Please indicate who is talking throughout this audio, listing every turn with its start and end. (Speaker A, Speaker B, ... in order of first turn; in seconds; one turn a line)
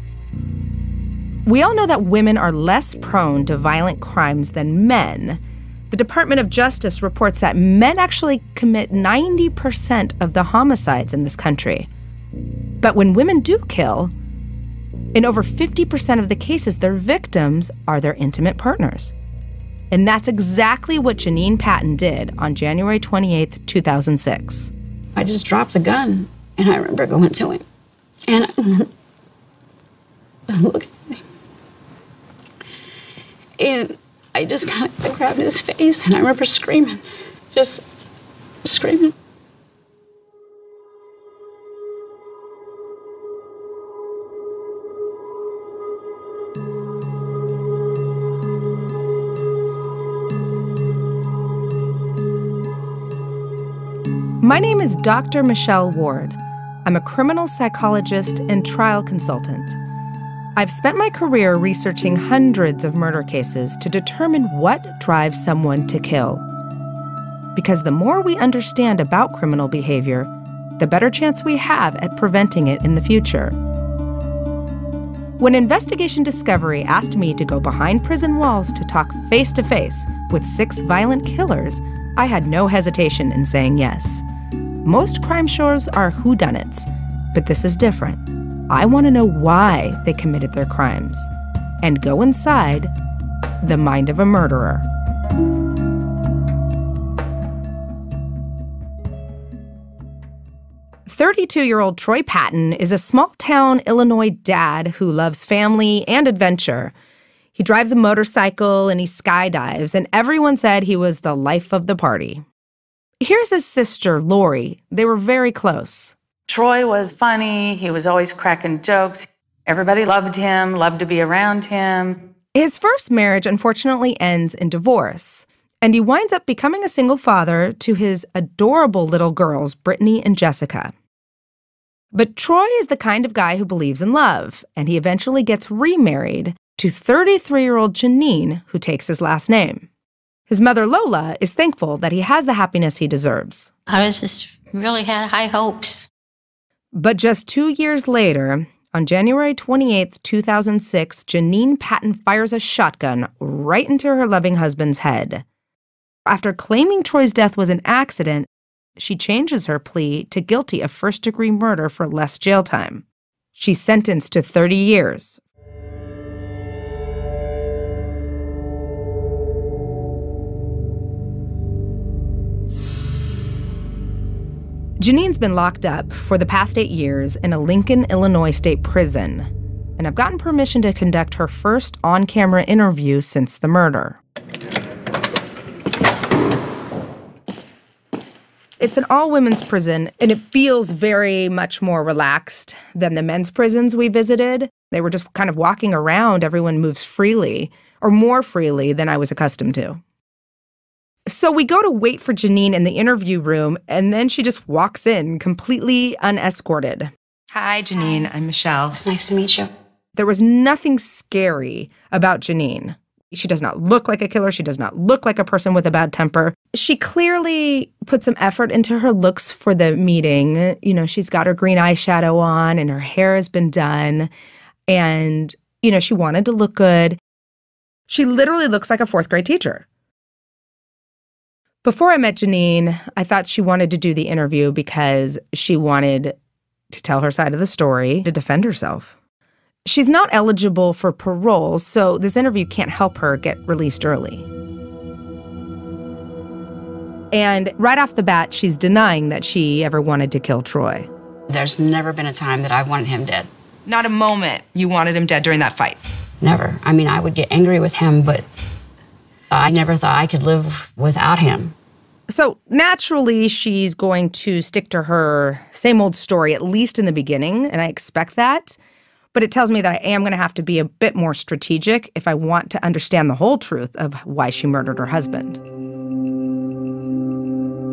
Speaker A: 1.4-11.9
Speaker A: 12.8-14.1
Speaker A: 15.1-19.1
Speaker A: 19.9-24.7
Speaker B: 25.1-27.6
Speaker B: 28.3-28.9
Speaker B: 30.5-31.2
Speaker B: 33.6-37.8
Speaker B: 38.6-39.1
Speaker A: 54.4-59.8
Speaker A: 60.5-66.4
Speaker A: 67.5-73.5
Speaker A: 75.4-84.2
Speaker A: 84.8-91.3
Speaker A: 91.8-92.9
Speaker A: 93.6-94.9
Speaker A: 101.0-106.9
Speaker A: 107.5-112.4
Speaker A: 113.2-116.2
Speaker C: 116.5-122.2
Speaker A: 122.5-130.9
Speaker A: 132.1-139.9
Speaker A: 140.5-143.7
Speaker D: 143.9-146.1
Speaker A: 146.9-155.4
Speaker A: 156.2-163.0
Speaker A: 163.6-165.4
Speaker A: 175.0-184.2
Speaker A: 188.8-200.0
Speaker A: 201.3-209.0
Speaker B: 208.9-209.7
Speaker A: 210.2-224.3
Speaker A: 224.9-227.2
Speaker A: 228.1-229.8
Speaker A: 231.8-236.3
Speaker A: 236.9-239.1
Speaker A: 239.8-244.5
Speaker A: 247.3-251.1
Speaker B: 251.5-253.5
Speaker A: 253.8-256.0
Speaker B: 256.4-258.4
Speaker B: 259.5-261.7
Speaker A: 262.3-268.8
Speaker A: 269.3-275.6